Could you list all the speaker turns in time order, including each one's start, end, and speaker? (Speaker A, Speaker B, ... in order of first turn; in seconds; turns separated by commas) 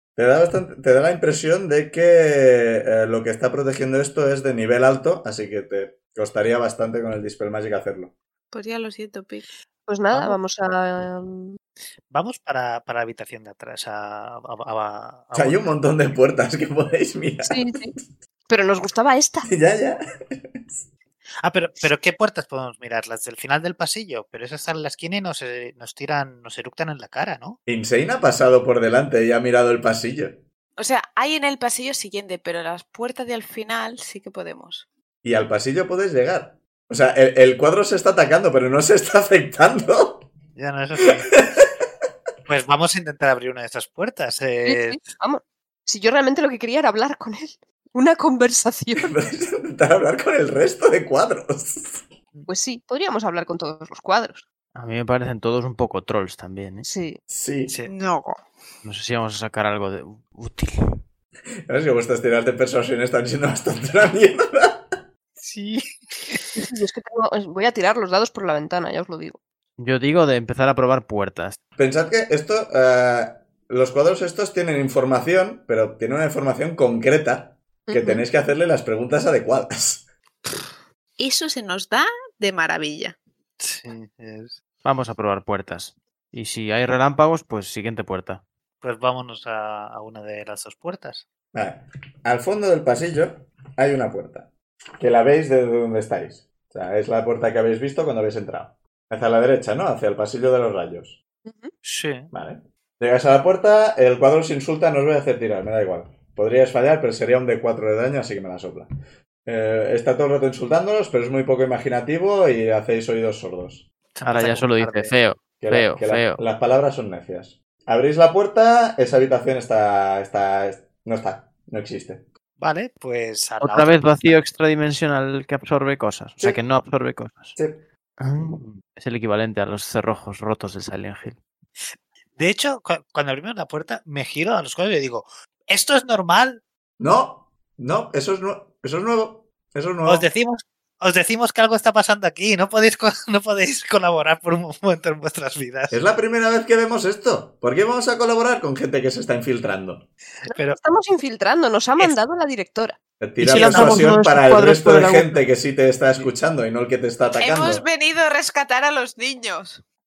Speaker A: 0.1-8.1, Speaker B: 8.5-9.5, Speaker C: 9.9-11.6, Speaker D: 10.1-10.4, Speaker D: 12.1-15.7, Speaker A: 15.3-17.8, Speaker C: 17.4-17.9, Speaker C: 18.5-19.5, Speaker A: 19.4-20.8, Speaker D: 21.4-27.6, Speaker A: 27.6-30.4, Speaker B: 30.8-34.9, Speaker A: 35.2-40.3, Speaker D: 40.5-41.3, Speaker D: 42.5-45.0, Speaker C: 44.6-49.2, Speaker A: 49.0-52.0, Speaker C: 52.5-54.4, Speaker E: 54.7-56.9, Speaker C: 56.8-57.2, Speaker A: 57.3-57.7, Speaker D: 57.7-57.9, Speaker B: 57.9-58.4, Speaker E: 58.8-60.8, Speaker A: 61.7-65.0, Speaker D: 65.4-66.5, Speaker C: 66.6-69.4, Speaker E: 69.8-71.6, Speaker A: 71.8-80.1, Speaker C: 77.9-78.2, Speaker B: 81.2-83.2, Speaker D: 83.6-84.6, Speaker E: 84.8-88.4, Speaker D: 88.8-91.2, Speaker A: 91.5-101.2, Speaker C: 101.4-101.7, Speaker D: 101.8-102.3, Speaker A: 102.3-108.9, Speaker A: 109.5-113.8, Speaker D: 114.1-115.1, Speaker E: 114.2-116.4, Speaker A: 115.6-122.2, Speaker D: 122.6-124.4, Speaker E: 123.6-127.5, Speaker A: 127.5-127.8, Speaker E: 128.2-131.4, Speaker D: 132.4-136.6, Speaker A: 137.0-140.3, Speaker D: 140.0-146.0, Speaker A: 145.9-150.1, Speaker D: 150.4-150.8, Speaker C: 150.5-153.0, Speaker A: 153.2-157.8, Speaker E: 153.4-155.4, Speaker D: 153.6-154.1, Speaker B: 157.4-159.8